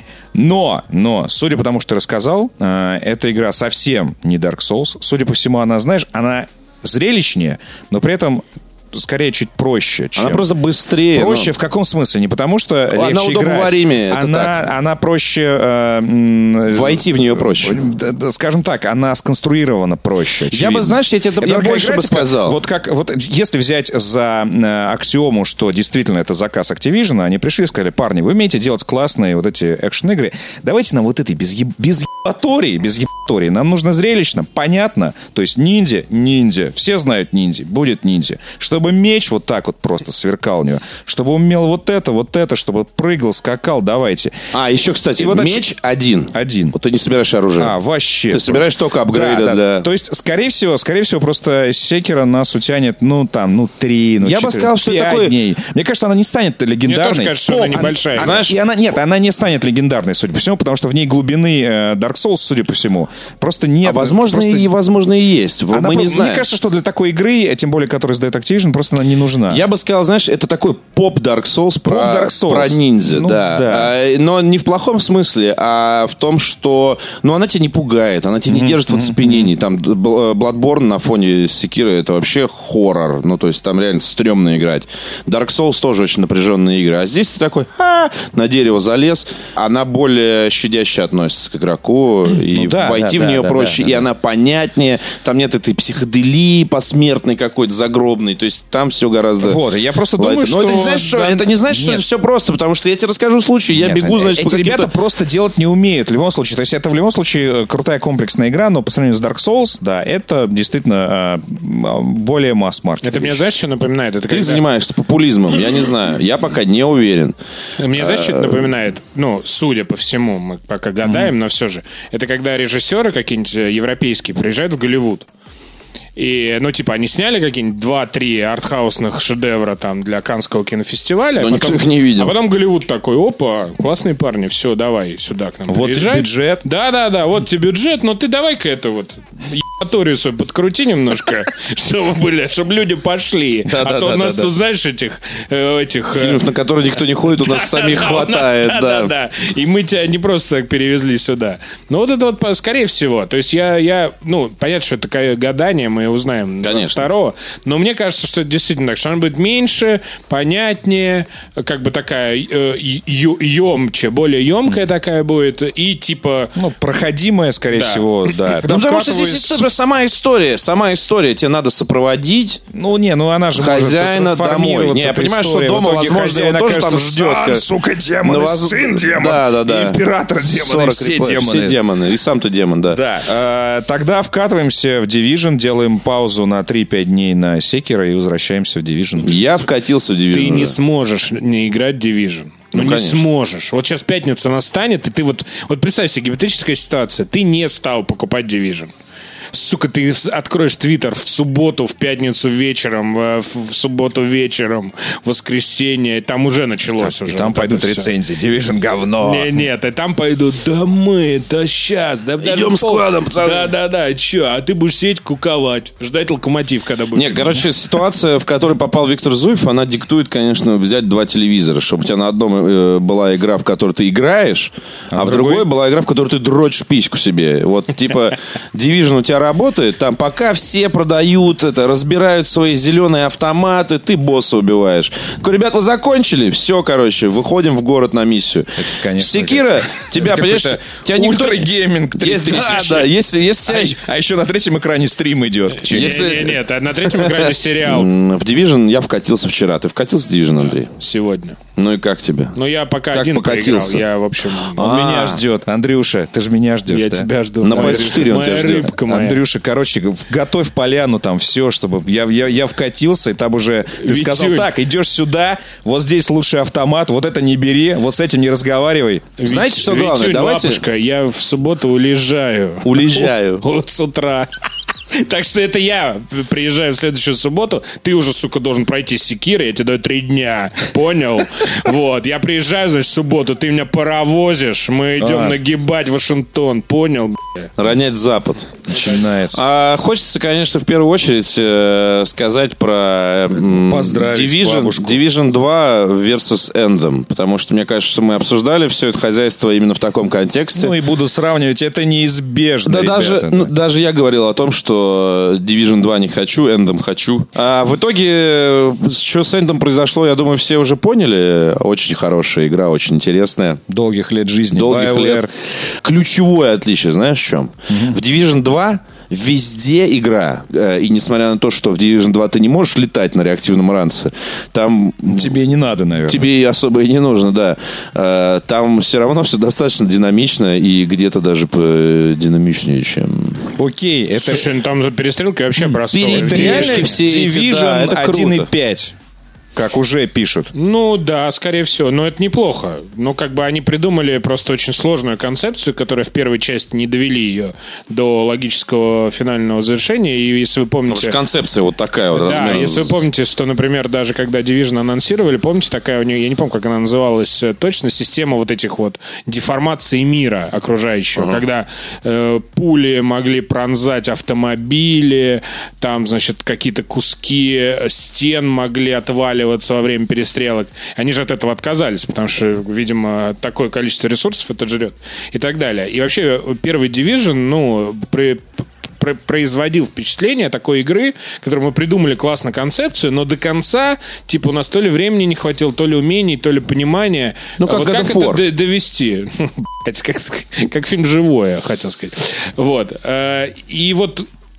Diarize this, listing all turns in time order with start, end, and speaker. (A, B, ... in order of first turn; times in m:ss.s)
0:00.3-0:10.4 A
0:10.2-0:11.5 B
0:11.1-0:44.4 A
0:12.9-0:14.5 B
0:16.7-0:17.8 B
0:20.5-0:22.6 B
0:44.5-0:47.7 B
0:45.2-0:45.6 A
0:46.3-0:46.7 A
0:47.6-1:04.7 A
0:48.3-0:49.9 B
0:54.2-0:55.3 B
0:56.8-0:58.4 C
0:58.2-0:58.5 B
1:03.8-1:06.5 B
1:05.7-1:09.6 A
1:09.5-1:39.6 B
1:11.8-1:13.9 A
1:18.5-1:19.5 A
1:32.5-1:34.0 A
1:39.4-1:42.0 A
1:40.2-1:44.9 B
1:43.7-1:53.4 A
1:53.0-1:54.6 C
1:54.3-1:57.4 B
1:57.8-2:05.3 C
1:57.9-1:58.7 B
2:01.0-2:01.3 A
2:06.2-2:26.4 C
2:11.4-2:12.3 B
2:15.7-2:16.6 A
2:23.6-2:24.5 A
2:26.1-2:29.1 B
2:27.3-2:46.5 C
2:36.6-2:37.0 B
2:46.6-2:49.7 A
2:47.7-2:48.1 C
2:48.6-2:52.6 B
2:52.7-3:01.8 A
2:53.5-2:57.7 B
2:58.2-3:03.0 B
3:02.9-3:09.6 A
3:09.2-3:10.8 B
3:10.3-3:18.9 C
3:12.7-3:13.2 B
3:19.5-3:28.1 C
3:26.9-3:29.5 A
3:29.2-3:37.7 C
3:32.4-3:33.7 B
3:37.1-4:04.0 B
3:45.1-3:45.7 A
3:58.8-4:03.1 A
4:03.7-4:06.3 A
4:05.8-4:06.6 B
4:05.9-4:08.1 C
4:07.1-4:10.9 B
4:10.6-4:11.6 C
4:11.8-4:12.6 B
4:12.5-4:14.8 C
4:13.1-4:14.0 B
4:14.7-4:15.4 B
4:14.8-4:18.3 A
4:16.9-4:19.4 C
4:17.6-4:18.9 B
4:19.0-4:29.3 A
4:24.0-4:24.7 C
4:29.4-4:34.5 C
4:29.4-4:30.8 B
4:32.8-4:33.6 B
4:35.1-4:47.7 C
4:45.2-4:45.6 A
4:47.8-4:49.0 B
4:48.9-4:49.6 A
4:49.5-5:01.0 B
4:53.9-4:55.2 A
5:00.8-5:03.7 A
5:02.9-5:13.8 B
5:13.9-5:15.5 A
5:14.7-5:25.6 B
5:17.9-5:18.2 A
5:25.3-5:26.5 A
5:26.2-5:33.7 B
5:33.8-5:34.7 A
5:34.4-5:37.2 C
5:35.8-5:39.1 A
5:36.1-5:38.7 B
5:39.7-5:40.7 A
5:40.7-5:51.4 C
5:51.1-5:53.1 B
5:52.3-6:34.5 C
6:01.4-6:01.6 B
6:27.8-6:28.6 B